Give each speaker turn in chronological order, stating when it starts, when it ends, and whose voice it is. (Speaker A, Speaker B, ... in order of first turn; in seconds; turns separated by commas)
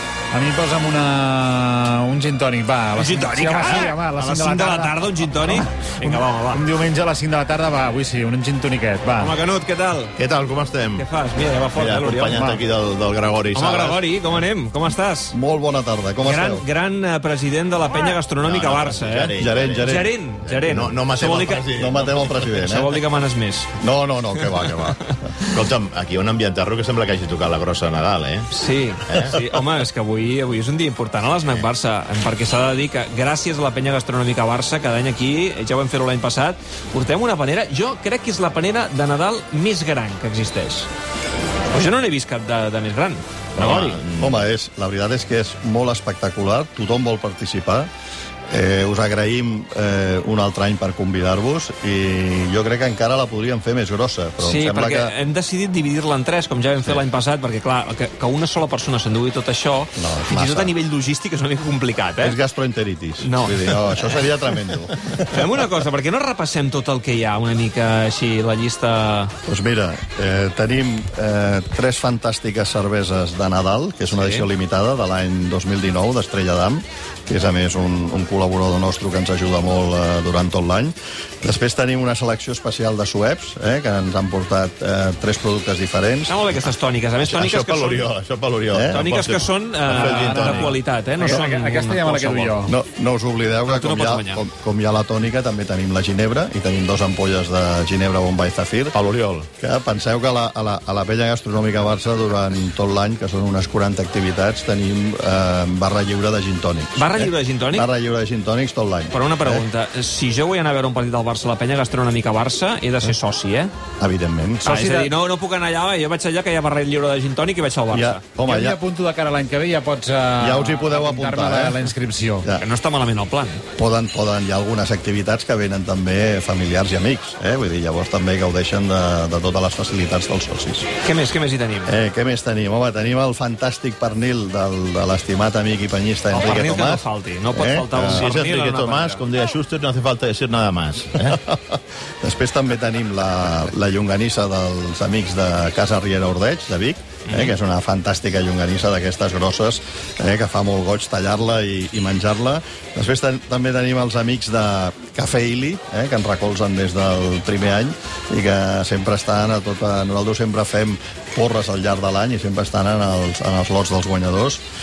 Speaker A: 0.3-9.3, Speaker B: 3.0-6.7, Speaker B: 9.2-10.1, Speaker C: 10.2-11.1, Speaker B: 10.9-12.5, Speaker C: 11.7-14.0, Speaker A: 12.3-12.6, Speaker B: 13.5-15.4, Speaker D: 15.3-16.6, Speaker B: 16.2-21.6, Speaker C: 18.4-19.9, Speaker D: 19.4-20.1, Speaker C: 20.4-22.4, Speaker D: 21.8-23.0, Speaker B: 22.5-23.7, Speaker D: 23.8-25.0, Speaker C: 25.5-28.5, Speaker B: 28.5-40.9, Speaker C: 29.1-29.5, Speaker B: 41.7-44.0, Speaker C: 43.6-44.5, Speaker D: 44.2-47.9, Speaker D: 48.5-55.1, Speaker B: 54.4-62.4, Speaker D: 60.0-60.7, Speaker D: 62.2-65.4, Speaker B: 63.2-64.1, Speaker B: 65.2-69.3, Speaker D: 69.5-86.3, Speaker B: 74.2-74.4, Speaker B: 86.3-88.1, Speaker C: 87.2-90.8, Speaker D: 88.7-89.0, Speaker B: 88.9-92.7, Speaker A: 89.9-92.7, Speaker D: 92.7-98.9, Speaker B: 93.7-94.4, Speaker C: 98.9-99.5, Speaker D: 99.6-109.6, Speaker B: 107.0-107.9, Speaker B: 109.1-113.7, Speaker D: 114.0-114.8, Speaker B: 114.6-118.2, Speaker A: 114.8-115.1, Speaker D: 117.9-118.8, Speaker A: 118.4-122.5, Speaker D: 120.4-121.8, Speaker B: 122.6-123.6, Speaker D: 123.8-130.9, Speaker B: 131.0-131.9, Speaker D: 131.8-138.3, Speaker B: 136.3-139.2, Speaker C: 138.1-141.4, Speaker D: 141.2-164.6, Speaker B: 147.3-147.5